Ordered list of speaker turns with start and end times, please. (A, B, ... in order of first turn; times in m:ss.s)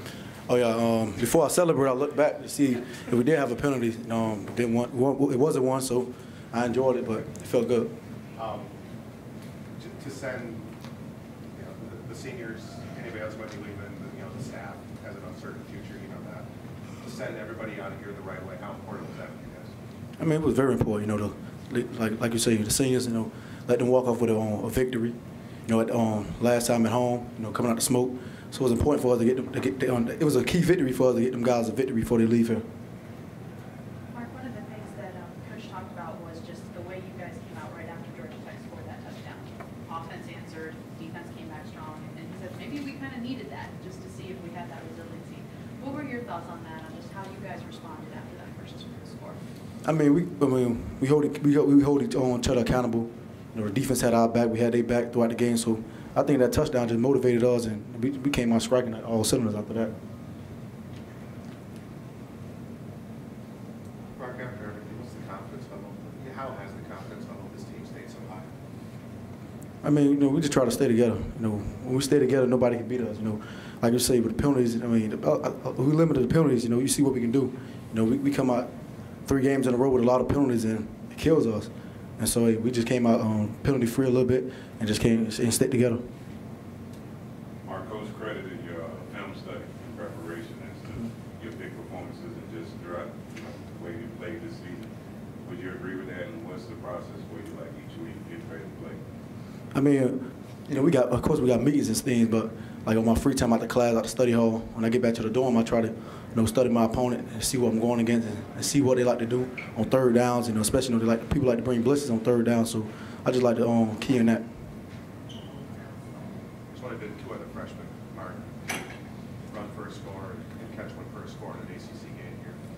0:00.5-0:07.9 A
0:08.3-0:08.7 B
0:09.8-0:10.7 B
0:11.5-0:16.5 B
0:17.0-0:19.7 B
0:20.2-0:25.2 A
0:25.7-0:32.6 A
0:34.1-0:49.4 C
0:49.8-0:59.9 A
1:04.1-1:08.5 B
1:09.8-1:18.7 A
1:19.2-1:26.0 A
1:27.6-1:34.9 D
1:35.4-1:39.0 D
1:39.7-1:54.4 A
1:56.7-1:58.9 B
1:59.5-2:02.6 B